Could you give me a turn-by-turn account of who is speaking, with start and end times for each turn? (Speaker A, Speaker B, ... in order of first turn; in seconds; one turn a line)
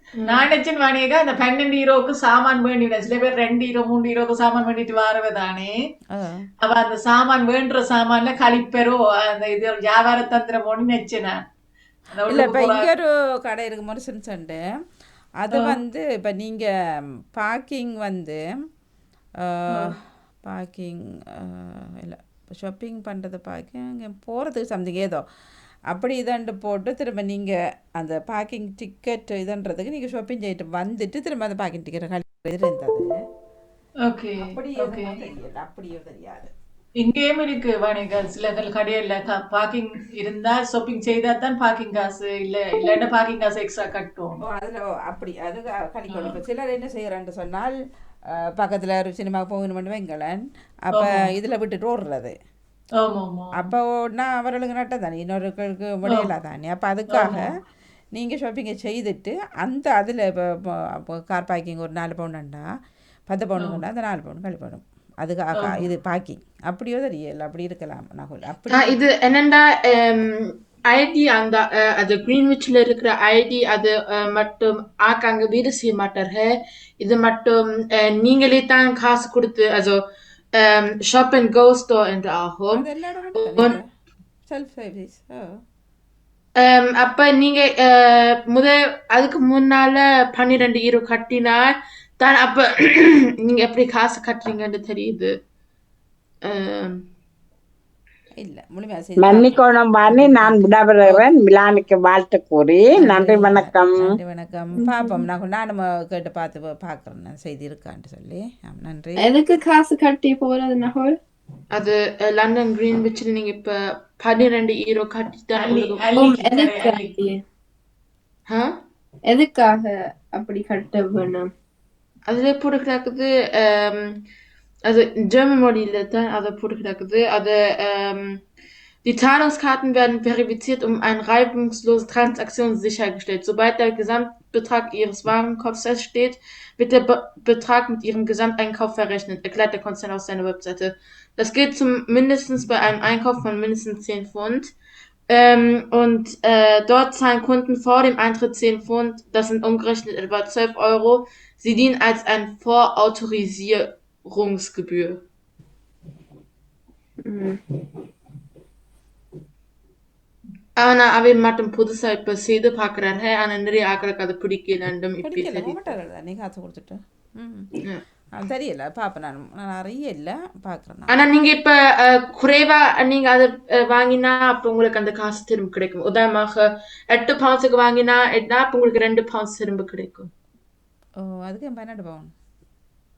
Speaker A: 0.1-0.5
Speaker B: 0.2-5.8
Speaker C: 6.1-6.5
Speaker B: 6.6-11.4
Speaker B: 12.1-12.9
Speaker C: 12.3-14.6
Speaker C: 15.4-16.7
Speaker C: 17.4-18.4
Speaker C: 19.4-25.2
Speaker C: 25.9-33.1
Speaker B: 34.0-35.2
Speaker C: 34.4-36.5
Speaker B: 37.0-44.4
Speaker C: 44.5-47.7
Speaker C: 48.6-52.3
Speaker B: 53.0-53.7
Speaker C: 53.6-57.4
Speaker B: 57.1-57.4
Speaker C: 58.1-60.3
Speaker C: 61.0-62.6
Speaker C: 63.3-69.0
Speaker A: 68.7-80.0
Speaker A: 80.6-82.8
Speaker C: 82.7-83.9
Speaker A: 83.4-83.8
Speaker C: 84.5-85.5
Speaker A: 86.6-95.3
Speaker A: 96.5-97.0
Speaker C: 98.4-99.5
Speaker D: 99.2-104.2
Speaker C: 100.1-101.2
Speaker C: 103.0-109.2
Speaker E: 104.8-105.2
Speaker E: 109.2-111.2
Speaker A: 111.7-116.0
Speaker B: 115.6-117.2
Speaker E: 116.2-117.4
Speaker A: 118.5-118.7
Speaker E: 119.3-121.5
Speaker A: 122.3-124.2
Speaker A: 124.9-128.4
Speaker A: 129.0-144.7
Speaker A: 145.3-155.2
Speaker E: 157.2-157.6
Speaker A: 160.8-165.8
Speaker C: 165.2-167.7
Speaker C: 168.4-171.1
Speaker A: 171.1-180.3
Speaker C: 181.2-182.3